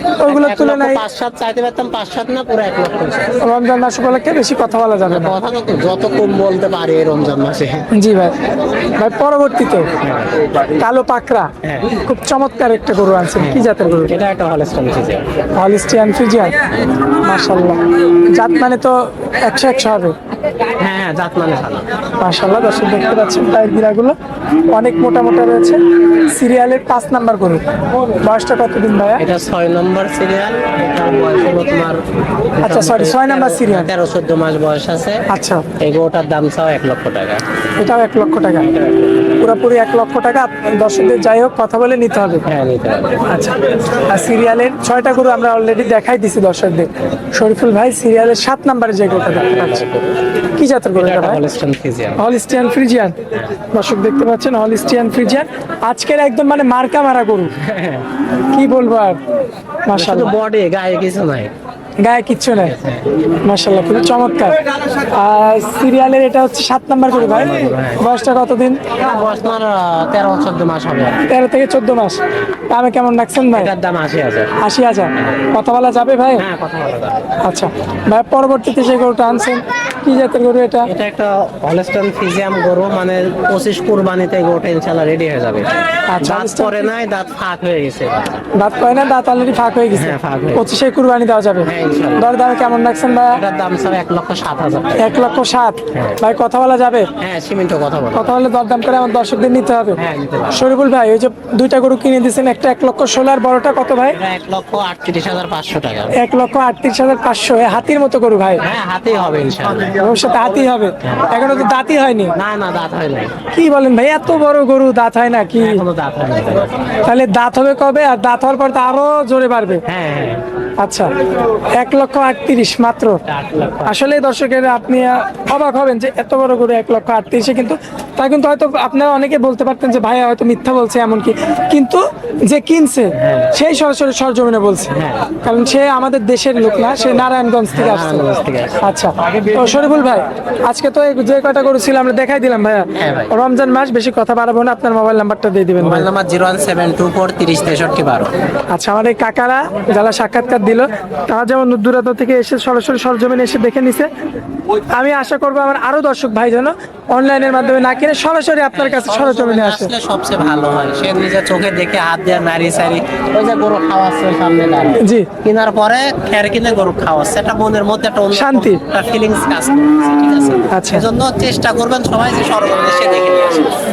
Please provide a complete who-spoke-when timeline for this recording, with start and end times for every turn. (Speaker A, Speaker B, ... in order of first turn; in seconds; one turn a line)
Speaker A: 0.2-1.0
Speaker B: 0.2-3.4
Speaker A: 3.4-5.3
Speaker B: 5.1-7.9
Speaker A: 7.9-8.3
Speaker A: 9.0-9.9
Speaker B: 10.0-10.5
Speaker A: 10.8-14.1
Speaker B: 11.6-11.9
Speaker B: 13.4-15.3
Speaker A: 15.5-16.6
Speaker A: 17.2-17.8
Speaker A: 18.3-20.1
Speaker B: 20.8-21.9
Speaker A: 22.2-24.2
Speaker A: 24.7-27.6
Speaker A: 28.2-29.2
Speaker B: 29.2-32.0
Speaker B: 32.6-35.2
Speaker A: 32.6-33.9
Speaker A: 35.3-35.7
Speaker B: 35.8-37.4
Speaker A: 37.8-38.7
Speaker A: 39.4-42.4
Speaker B: 42.5-43.3
Speaker A: 43.2-49.8
Speaker B: 49.1-50.2
Speaker A: 50.5-51.4
Speaker B: 50.9-52.2
Speaker A: 52.2-53.2
Speaker A: 53.7-57.5
Speaker B: 57.6-58.1
Speaker A: 58.5-59.2
Speaker A: 59.9-60.3
Speaker B: 59.9-61.5
Speaker A: 62.0-62.8
Speaker B: 62.5-63.1
Speaker A: 63.4-64.6
Speaker A: 65.1-68.9
Speaker B: 67.1-68.0
Speaker B: 68.9-71.2
Speaker A: 71.2-73.7
Speaker B: 73.5-74.5
Speaker A: 74.6-76.5
Speaker B: 76.4-77.4
Speaker A: 77.4-80.9
Speaker B: 80.9-88.4
Speaker A: 86.1-86.8
Speaker A: 88.5-93.4
Speaker B: 89.9-90.7
Speaker B: 91.7-92.3
Speaker B: 93.3-95.1
Speaker A: 95.0-97.1
Speaker B: 95.9-96.2
Speaker B: 97.2-98.4
Speaker A: 98.1-100.0
Speaker B: 100.0-100.7
Speaker A: 100.5-104.2
Speaker B: 104.1-106.2
Speaker A: 106.1-108.6
Speaker B: 108.6-110.0
Speaker A: 110.0-112.3
Speaker B: 111.0-111.3
Speaker B: 112.3-113.3
Speaker A: 113.5-115.8
Speaker B: 115.6-117.0
Speaker A: 117.0-119.8
Speaker B: 119.9-120.4
Speaker A: 120.8-121.1
Speaker A: 121.8-123.2
Speaker B: 123.2-124.0
Speaker A: 123.9-138.2
Speaker B: 133.2-133.6
Speaker B: 134.9-135.4
Speaker B: 137.7-138.9
Speaker A: 138.8-146.1
Speaker B: 142.9-143.3
Speaker B: 145.8-148.3
Speaker A: 148.7-154.1
Speaker A: 155.0-159.9
Speaker B: 158.7-173.7
Speaker A: 165.0-165.3
Speaker A: 168.3-168.8
Speaker A: 170.7-171.1